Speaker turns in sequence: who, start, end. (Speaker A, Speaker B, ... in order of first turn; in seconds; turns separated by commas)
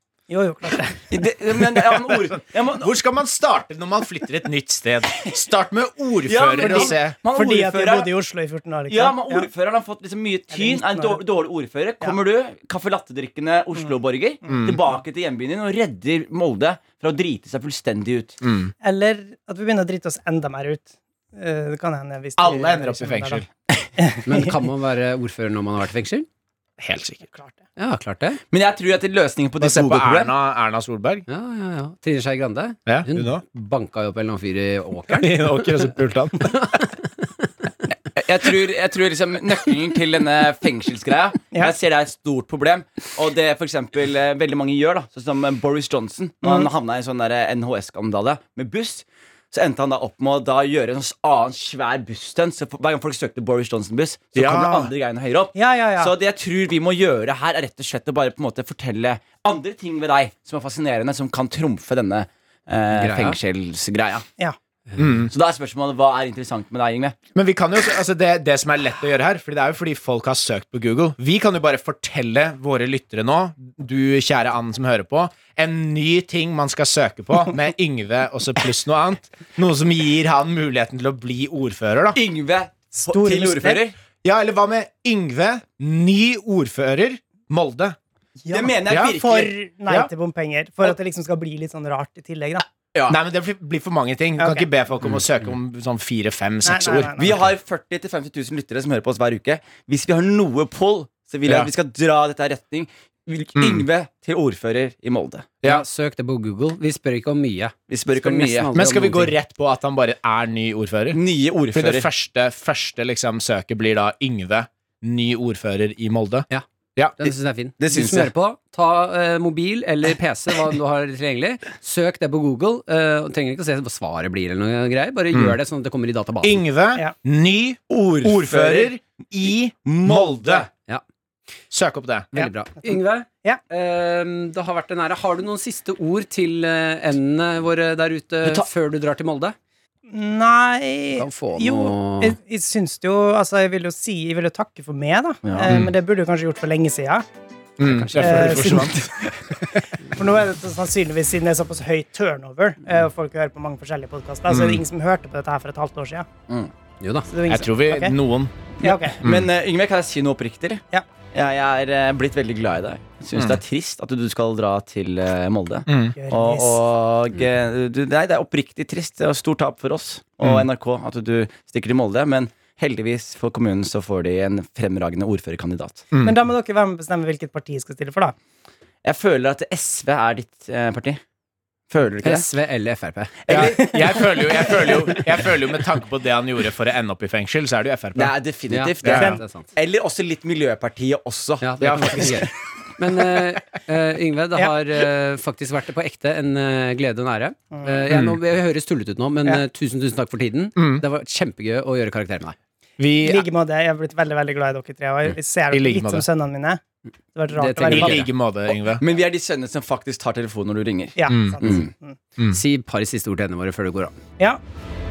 Speaker A: 0.3-1.1, Speaker B: 1.1-2.9, Speaker C: 1.8-7.2, Speaker B: 6.2-8.1, Speaker A: 6.6-9.5, Speaker B: 8.9-18.4, Speaker A: 10.5-11.2, Speaker C: 14.5-14.8, Speaker C: 18.4-18.7, Speaker A: 18.8-23.4, Speaker C: 22.4-23.4, Speaker A: 24.0-24.6, Speaker D: 24.2-26.3, Speaker C: 26.8-27.2, Speaker A: 27.3-27.6, Speaker D: 27.8-28.4, Speaker B: 28.5-30.3, Speaker C: 29.6-31.2, Speaker D: 31.3-35.9, Speaker C: 32.9-33.4, Speaker C: 35.1-36.7, Speaker D: 36.5-37.5, Speaker B: 38.1-64.3, Speaker C: 54.4-54.9, Speaker A: 55.5-56.1, Speaker D: 62.9-63.4, Speaker C: 65.0-65.3, Speaker B: 65.3-67.2, Speaker C: 67.3-82.2, Speaker B: 82.1-83.9, Speaker A: 83.0-83.8, Speaker C: 84.2-88.0, Speaker A: 88.4-92.7, Speaker B: 88.5-89.5, Speaker C: 88.9-89.2, Speaker B: 92.9-93.2, Speaker C: 93.1-97.3, Speaker A: 94.4-94.7, Speaker A: 96.6-97.3, Speaker B: 97.2-105.5, Speaker C: 103.5-103.8, Speaker D: 105.6-109.3, Speaker B: 107.9-108.7, Speaker C: 108.7-111.2, Speaker B: 111.1-112.1, Speaker C: 111.7-117.1, Speaker D: 117.2-126.6, Speaker B: 117.2-118.3, Speaker C: 125.3-125.6, Speaker C: 126.4-130.7, Speaker B: 127.9-128.9, Speaker B: 129.8-130.7, Speaker C: 131.7-132.3, Speaker D: 132.3-139.6, Speaker A: 140.1-147.2, Speaker D: 141.2-142.4, Speaker B: 145.4-145.7, Speaker C: 147.8-149.1, Speaker D: 147.8-148.8, Speaker A: 148.2-149.0, Speaker B: 148.7-149.4, Speaker A: 150.0-156.3, Speaker C: 154.5-154.8, Speaker D: 157.0-157.3, Speaker A: 157.3-158.1, Speaker C: 157.5-158.5, Speaker A: 158.8-159.2, Speaker B: 158.8-176.1, Speaker C: 163.3-163.6, Speaker C: 165.9-166.1, Speaker A: 166.2-166.8, Speaker C: 170.4-170.7, Speaker C: 176.1-176.4, Speaker A: 176.2-178.3, Speaker B: 179.0-181.2, Speaker B: 181.9-182.5, Speaker D: 182.2-185.2, Speaker B: 183.4-183.8, Speaker C: 183.5-188.3, Speaker B: 188.1-192.3, Speaker D: 188.7-189.7, Speaker C: 189.0-189.4, Speaker D: 191.6-202.5, Speaker C: 191.8-192.5, Speaker A: 197.7-198.1, Speaker C: 198.1-198.4, Speaker C: 200.8-201.0, Speaker C: 203.0-203.4, Speaker A: 203.2-206.8, Speaker C: 205.7-206.2, Speaker A: 207.3-208.2, Speaker D: 207.5-208.3, Speaker C: 207.8-209.0, Speaker B: 208.9-211.7, Speaker A: 211.2-212.2, Speaker C: 211.3-211.6, Speaker D: 211.6-211.9, Speaker D: 212.5-214.2